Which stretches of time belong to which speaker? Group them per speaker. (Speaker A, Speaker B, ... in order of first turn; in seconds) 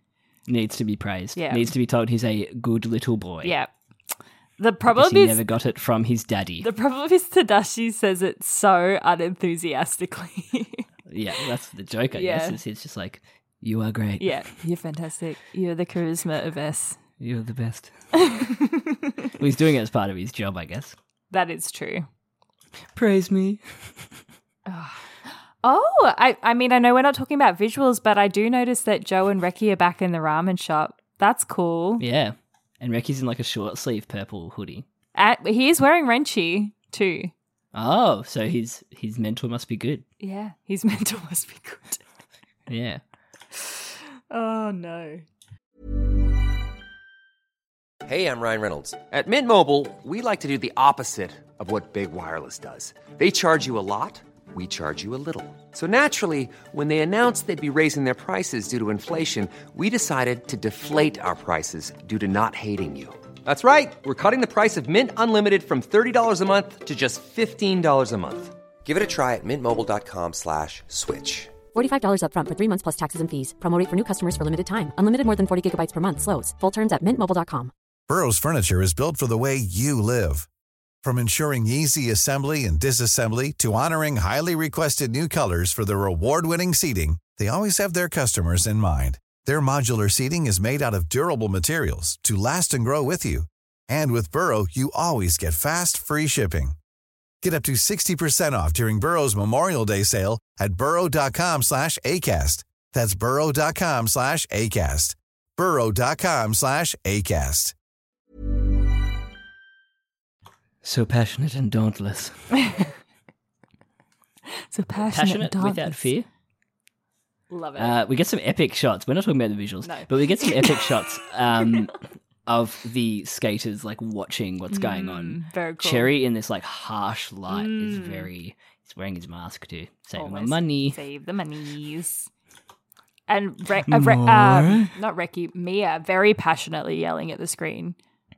Speaker A: 0.5-3.5, 4.9-6.7, 11.1-14.5, 17.2-17.9, 19.4-21.0, 22.9-23.6, 32.0-34.9, 37.7-40.0, 42.7-43.0, 110.8-112.5, 115.0-116.3, 117.8-131.0, 133.9-134.9
Speaker B: 1.4-1.7, 3.4-3.7, 4.6-5.4, 6.6-10.9, 12.1-12.6, 14.2-17.0, 18.1-19.1, 21.3-22.1, 24.7-32.0, 35.2-37.3, 40.2-42.0, 43.5-45.2, 114.7-116.1, 117.5-118.0, 119.8-121.0, 124.7-126.1, 127.5-128.3, 130.2-132.3, 133.3-138.0
Speaker C: 48.1-71.6
Speaker D: 71.7-77.7
Speaker E: 78.1-80.5, 81.0-96.8, 97.4-107.8